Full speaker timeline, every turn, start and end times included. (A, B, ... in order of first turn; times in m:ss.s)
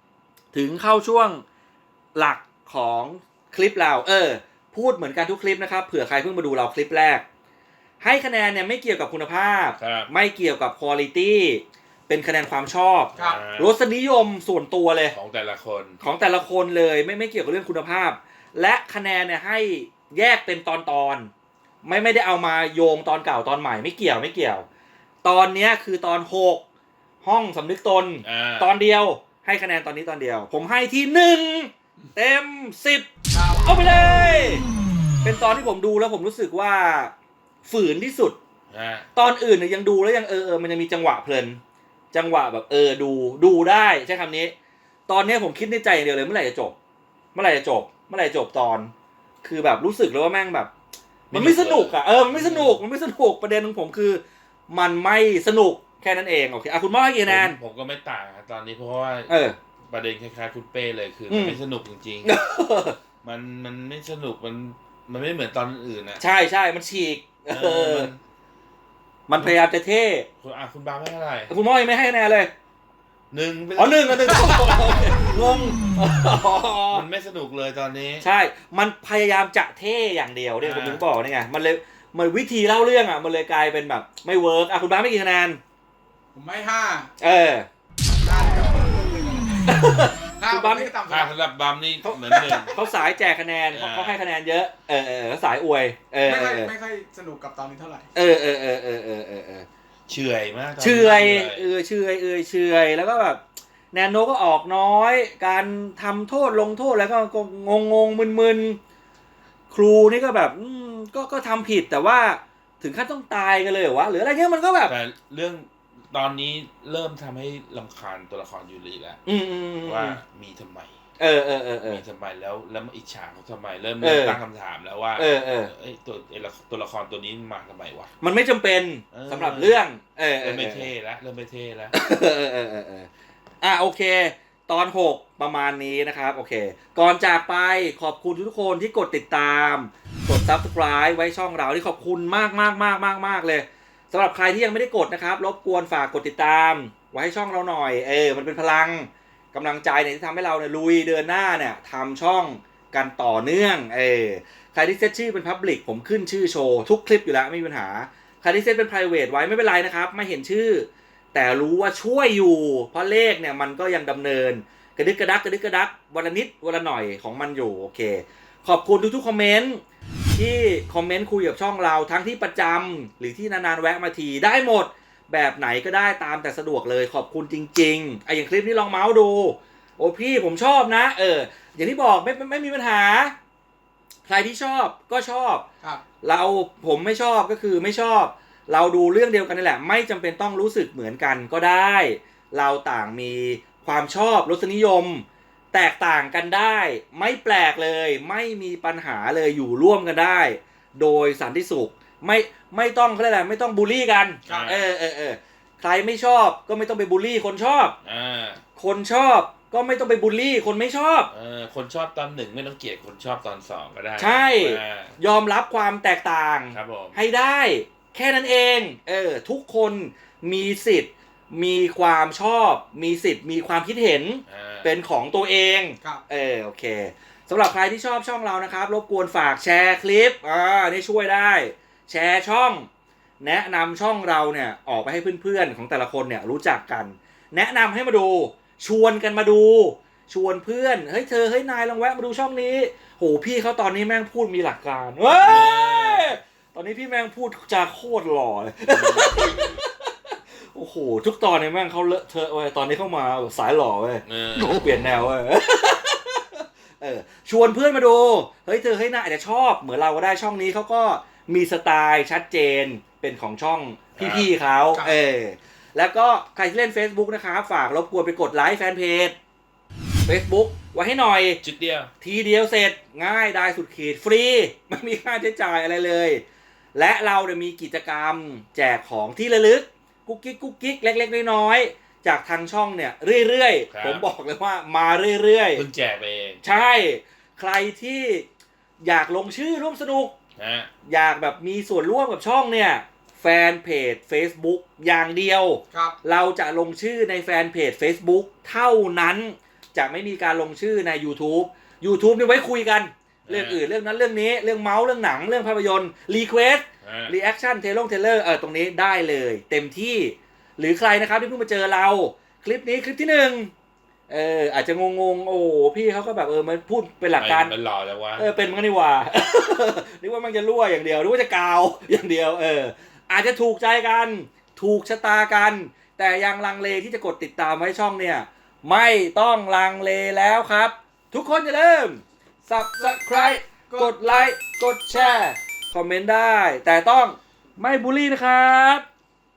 0:00.5-0:01.4 A
0:02.1-0:07.2 A
0:08.0-0:15.1 A
0:09.8-0:10.1 B
0:13.2-0:13.7 B
0:13.2-0:13.4 C
0:15.1-0:16.0 B
0:16.0-0:21.3 A
0:21.8-0:24.6 A
0:25.2-0:26.6 A
0:27.2-0:33.1 A
0:28.2-0:28.7 B
0:33.3-0:33.7 C
0:33.6-0:34.6 A
0:35.2-0:37.1 A
0:37.6-0:38.4 A
0:38.7-0:39.1 B
0:39.1-0:41.6 A
0:42.1-0:44.5 A
0:45.1-0:46.7 A
0:47.3-0:48.9 A
0:49.4-0:50.7 A
0:51.3-0:52.8 B
0:51.3-0:57.6 A
0:57.3-0:59.4 B
0:59.3-0:59.6 A
0:59.9-1:02.4 B
1:01.3-1:01.6 A
1:02.2-1:03.0 A
1:03.2-1:06.2 B
1:06.2-1:08.1 A
1:07.5-1:08.2 B
1:09.3-1:10.3 A
1:10.4-1:11.5 B
1:11.5-1:12.5 A
1:13.3-1:15.0 B
1:13.8-1:17.0 A
1:16.9-1:18.2 B
1:18.2-1:25.6 A
1:20.6-1:21.0 B
1:26.3-1:27.1 C
1:27.2-1:27.7 A
1:28.2-1:31.3 C
1:29.7-1:30.9 A
1:31.1-1:32.8 B
1:32.0-1:36.7 A
1:33.7-1:34.2 B
1:36.2-1:38.1 C
1:38.1-1:39.7 A
1:40.1-1:41.7 B
1:40.8-1:43.4 A
1:43.9-1:48.8 A
1:49.7-1:54.9 A
1:54.9-1:59.2 B
1:59.2-2:00.2 A
1:59.8-2:00.9 B
2:01.2-2:02.0 A
2:01.8-2:08.1 B
2:04.0-2:04.4 A
2:05.2-2:05.7 A
2:08.2-2:10.9 A
2:09.1-2:09.8 B
2:10.4-2:11.9 B
2:11.9-2:13.1 A
2:13.6-3:03.4 A
3:04.3-3:05.6 A
3:06.2-3:27.9 A
3:24.5-3:24.8 C
3:24.5-3:24.9 B
3:28.0-3:28.6 B
3:28.8-3:31.3 A
3:31.3-3:35.2 B
3:34.2-3:52.9 A
3:36.7-3:37.2 B
3:44.5-3:44.9 B
3:53.4-4:29.4 A
4:05.3-4:06.4 B
4:08.9-4:09.8 B
4:14.2-4:15.0 B
4:24.2-4:24.5 B
4:30.2-4:31.6 A
4:31.6-4:32.1 B
4:32.2-4:36.4 A
4:36.9-4:45.8 A
4:43.9-4:44.2 B
4:45.7-4:46.6 B
4:46.6-4:48.5 A
4:49.0-4:50.3 A
4:50.6-4:50.9 B
4:51.0-5:13.7 A
4:55.9-4:56.2 C
5:03.5-5:03.8 B
5:07.0-5:07.3 B
5:14.3-5:17.7 A
5:17.4-5:18.7 B
5:18.4-5:39.0 A
5:33.0-5:34.5 C